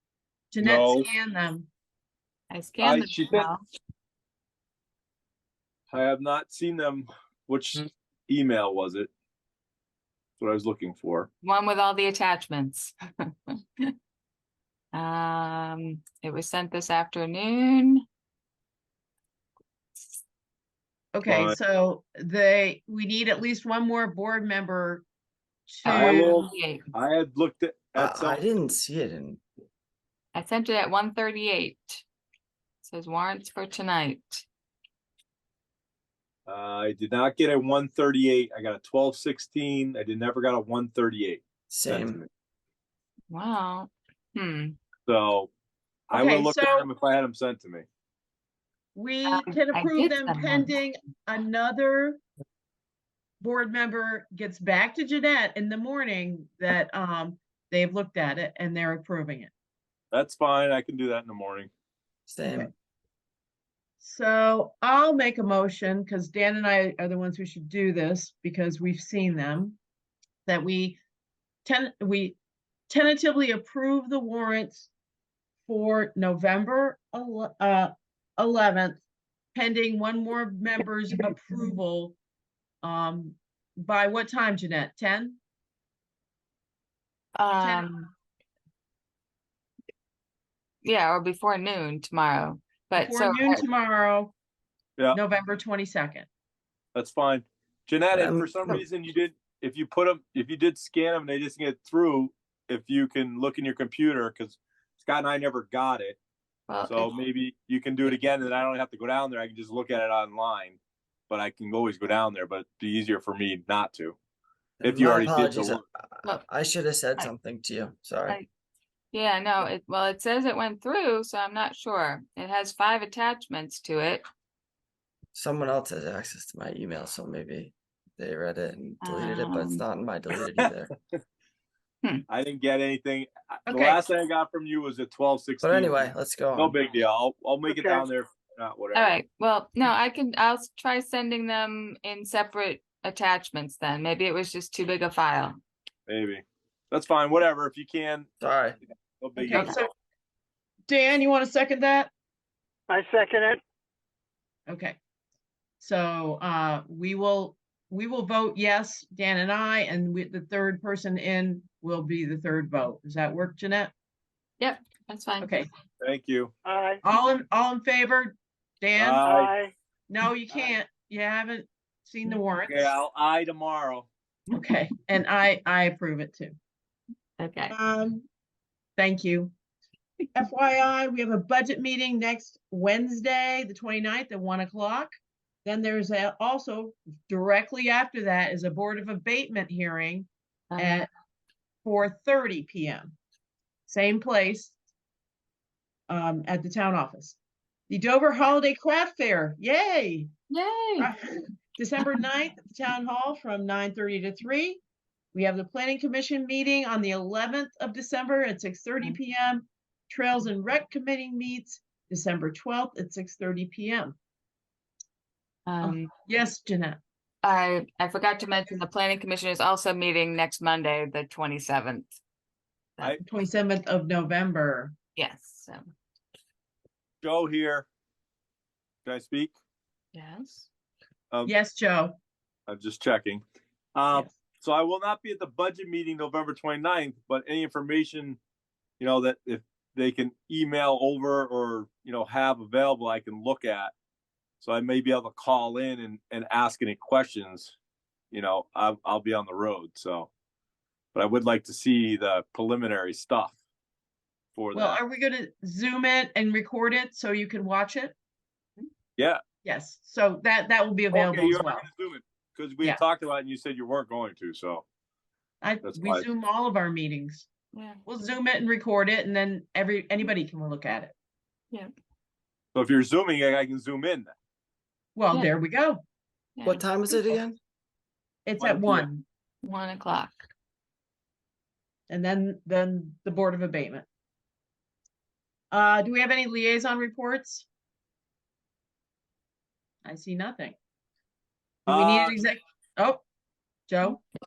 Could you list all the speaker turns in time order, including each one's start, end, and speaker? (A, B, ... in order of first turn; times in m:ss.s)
0:00.5-0:01.7 A
0:00.6-0:01.1 B
0:02.5-0:03.6 C
0:02.8-0:03.5 B
0:05.9-0:09.1 B
0:10.4-0:11.3 B
0:11.4-0:13.0 C
0:13.5-0:13.9 C
0:14.9-0:18.0 C
0:21.1-0:25.0 A
0:21.2-0:21.6 B
0:25.7-0:26.4 A
0:25.8-0:26.9 C
0:25.9-0:28.4 B
0:28.0-0:29.4 D
0:30.3-0:32.0 C
0:32.8-0:34.4 C
0:36.5-0:42.2 B
0:41.7-0:42.2 D
0:43.3-0:44.8 C
0:45.0-0:45.5 B
0:46.1-0:47.8 B
0:46.1-0:46.9 A
0:48.9-0:52.2 A
0:49.2-0:50.7 C
0:53.4-0:59.5 A
1:00.1-1:01.7 B
1:02.3-1:02.7 D
1:04.0-1:09.8 A
1:10.4-1:11.0 A
1:11.6-1:12.4 A
1:12.9-1:14.9 A
1:15.6-1:19.0 A
1:19.5-1:22.2 A
1:22.8-1:25.4 A
1:27.4-1:28.1 C
1:27.6-1:27.9 A
1:30.8-1:33.6 C
1:32.9-1:34.3 A
1:35.1-1:36.3 A
1:36.9-1:46.2 B
1:38.1-1:38.8 D
1:46.7-1:47.2 C
1:46.8-1:50.8 B
1:51.3-1:54.2 B
1:54.8-1:58.4 D
1:54.8-1:55.8 B
1:56.2-1:56.5 C
1:59.1-2:04.2 C
2:05.3-2:10.9 D
2:09.0-2:09.8 C
2:10.4-2:10.7 B
2:12.3-2:19.1 B
2:13.7-2:14.1 A
2:15.6-2:16.8 D
2:17.7-2:18.1 E
2:18.9-2:25.6 C
2:26.1-2:28.3 B
2:28.4-2:28.8 D
2:29.2-2:29.9 B
2:29.4-2:29.9 A
2:30.9-2:32.1 A
2:32.9-2:33.6 E
2:34.7-2:35.0 A
2:35.8-2:43.9 A
2:44.6-2:45.6 C
2:45.4-2:45.7 A
2:46.0-2:46.5 B
2:46.6-2:47.0 E
2:47.0-2:49.2 A
2:49.0-2:49.5 B
2:49.2-2:49.7 E
2:50.1-2:53.0 A
2:52.6-2:54.1 B
2:54.5-2:56.6 A
2:57.4-2:57.7 C
2:57.7-2:58.2 A
2:59.0-2:59.5 A
3:00.3-3:05.1 A
3:05.6-3:11.1 A
3:10.7-3:11.0 C
3:11.8-3:13.2 A
3:13.9-3:14.7 A
3:16.1-3:17.4 A
3:17.9-3:20.3 A
3:20.5-3:21.1 C
3:21.0-3:24.8 A
3:25.3-3:34.2 A
3:35.7-3:36.1 C
3:35.8-3:37.0 A
3:37.4-3:42.1 C
3:43.2-3:44.9 A
3:45.2-3:45.8 C
3:47.2-3:47.8 B
3:49.0-3:49.5 B
3:50.1-3:50.7 C
3:51.4-3:52.2 A
3:52.7-3:53.4 B
3:53.9-3:58.4 B
3:59.0-4:03.9 B
4:04.6-4:07.7 B
4:08.3-4:10.3 B
4:11.1-4:13.6 B
4:14.6-4:15.0 B
4:14.7-4:18.1 A
4:19.6-4:21.8 A
4:21.1-4:24.8 B
4:25.6-4:27.5 A
4:25.8-4:26.2 B
4:27.7-4:28.0 C
4:28.1-4:31.1 A
4:32.7-4:34.3 B
4:35.1-4:36.0 A
4:36.6-4:37.4 C
4:36.6-4:37.6 D
4:38.4-4:39.2 A
4:38.6-4:39.1 B
4:39.6-4:40.4 C
4:42.1-4:44.1 A
4:45.7-4:47.6 A
4:50.0-4:50.8 A
4:51.8-4:52.4 B
4:51.8-4:53.2 A
4:53.9-4:54.2 A